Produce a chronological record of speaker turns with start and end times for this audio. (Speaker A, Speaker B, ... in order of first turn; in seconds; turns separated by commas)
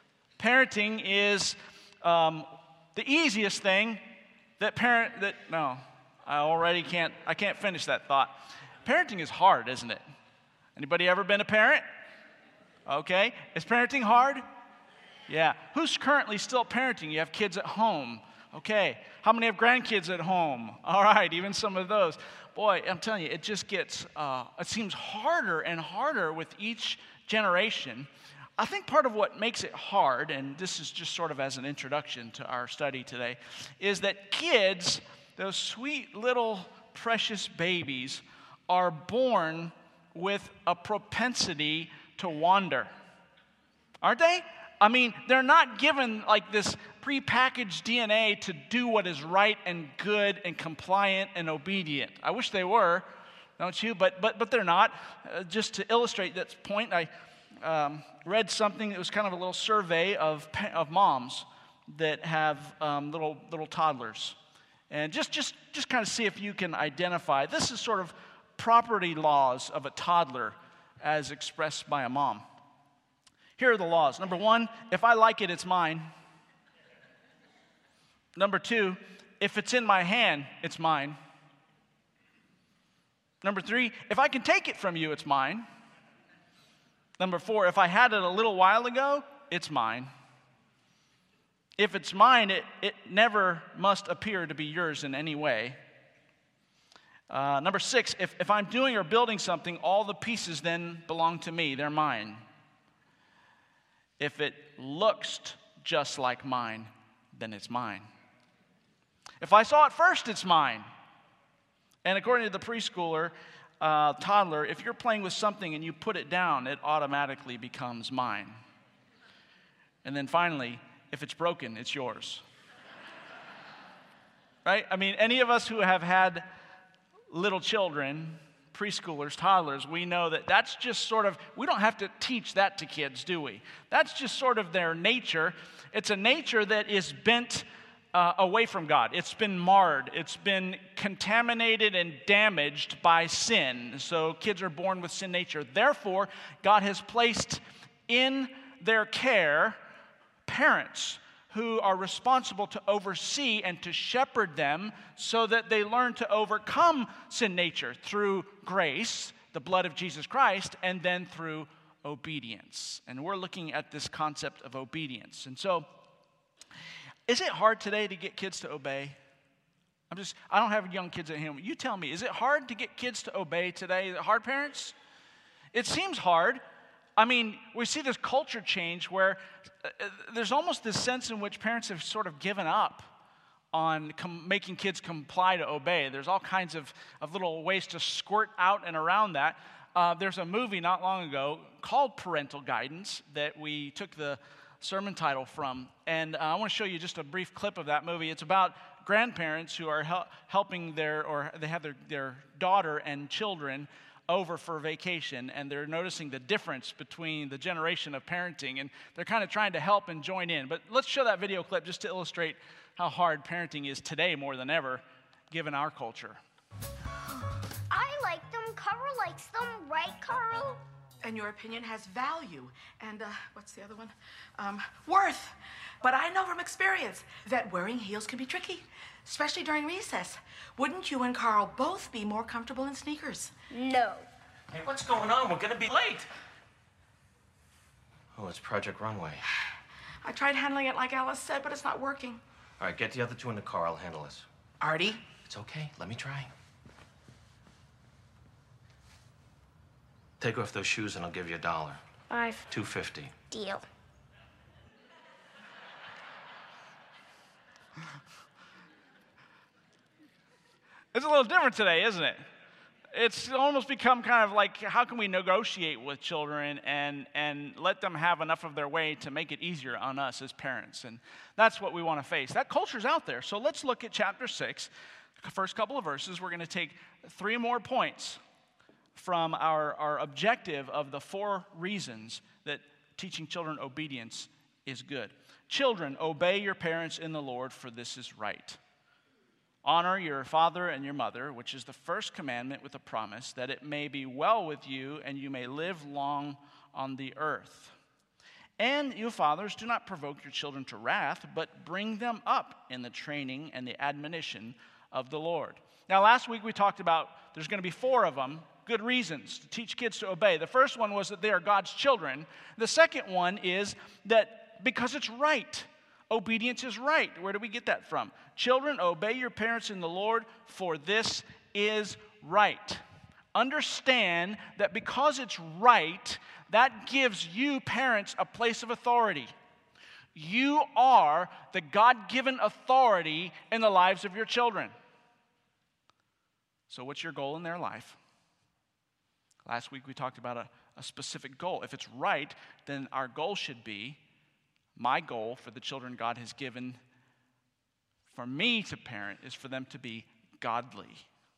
Speaker A: 0.4-4.0, Speaker A: 4.6-10.0, Speaker A: 10.8-11.9, Speaker A: 12.8-14.4, Speaker A: 15.3-42.9, Speaker A: 44.0-64.4, Speaker A: 64.9-72.4, Speaker A: 73.6-76.1, Speaker A: 78.3-81.2, Speaker A: 83.4-85.7, Speaker A: 87.2-90.1, Speaker A: 91.8-95.8, Speaker A: 97.3-102.4, Speaker A: 104.2-108.1, Speaker A: 109.4-110.9, Speaker A: 112.0-118.6, Speaker A: 120.0-122.4, Speaker A: 124.6-126.5, Speaker A: 127.3-149.8, Speaker A: 150.4-165.9, Speaker A: 167.3-169.2, Speaker A: 170.1-174.9, Speaker A: 175.7-176.6, Speaker A: 177.2-183.1, Speaker A: 183.7-216.4, Speaker B: 217.9-220.8, Speaker C: 221.2-233.5, Speaker B: 233.7-234.3, Speaker D: 234.7-236.3, Speaker D: 238.3-239.4, Speaker C: 240.2-242.4, Speaker D: 242.8-244.5, Speaker C: 244.8-245.2, Speaker D: 245.5-246.5, Speaker D: 250.4-252.0, Speaker B: 252.3-252.7, Speaker D: 252.7-253.3, Speaker B: 253.5-253.9, Speaker A: 261.1-262.5, Speaker A: 263.1-278.4, Speaker A: 279.1-288.8, Speaker A: 289.8-297.9, Speaker A: 298.8-323.0, Speaker A: 323.6-329.5, Speaker A: 330.4-334.9, Speaker A: 336.9-338.2, Speaker A: 339.6-344.2, Speaker A: 344.9-347.0, Speaker A: 348.3-351.2